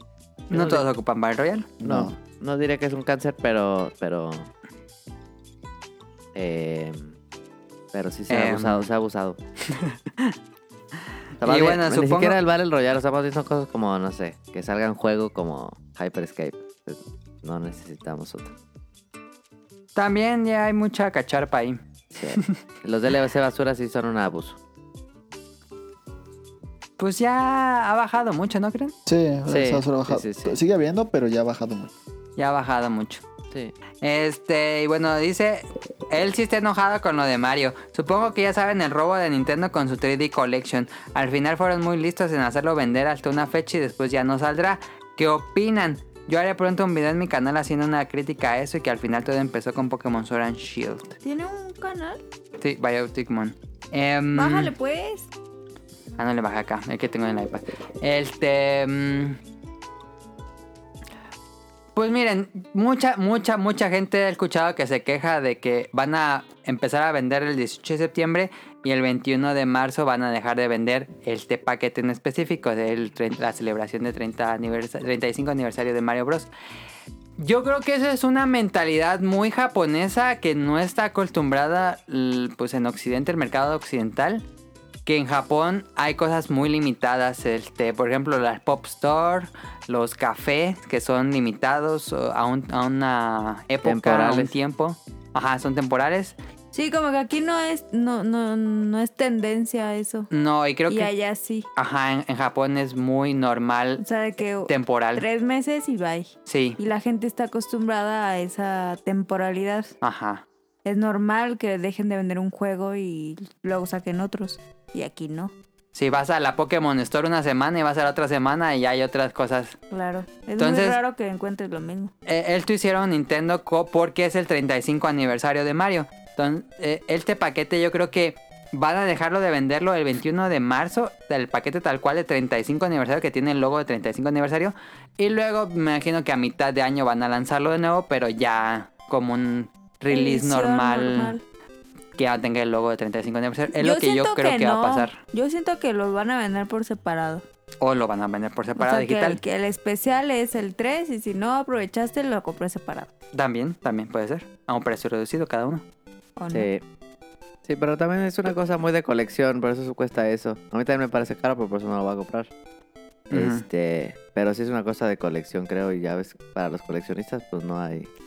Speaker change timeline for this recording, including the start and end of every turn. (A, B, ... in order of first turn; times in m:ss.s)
0:00.5-0:01.7 A
0:00.5-0:00.8 B
0:01.8-0:02.1 C
0:01.8-0:04.5 B
0:06.3-0:07.2 B
0:07.9-0:09.4 B
0:08.3-0:08.9 A
0:09.7-0:10.3 A
0:11.4-0:18.5 B
0:11.4-0:12.4 A
0:20.0-0:21.8 A
0:22.1-0:24.6 B
0:27.0-0:28.9 A
0:29.0-0:31.9 C
0:29.5-0:30.6 B
0:32.4-0:33.2 A
0:34.0-0:51.2 A
0:51.2-0:52.2 D
0:52.6-0:54.7 A
0:54.3-0:55.3 D
0:56.2-0:59.4 A
1:01.9-1:16.5 A
1:17.4-1:24.4 A
1:25.0-1:36.4 A
1:33.8-1:34.5 B
1:36.7-1:40.3 D
1:40.3-1:41.1 A
1:40.9-1:41.7 D
1:41.8-1:44.0 A
1:44.0-1:49.9 D
1:44.7-1:45.2 A
1:46.4-1:46.8 A
1:50.0-1:50.4 A
1:50.8-1:55.5 D
1:55.9-1:59.8 A
1:59.9-2:02.1 D
2:00.6-2:01.0 A
2:02.2-2:21.3 A
2:20.1-2:21.4 D
2:22.2-2:25.2 A
2:23.8-2:27.4 D
2:27.8-2:29.4 A
2:28.8-2:33.1 D
2:33.3-2:35.8 A
2:36.4-2:36.7 D
2:36.5-2:36.8 B
2:37.6-2:42.5 B
2:43.3-2:43.6 A
2:43.3-2:48.1 B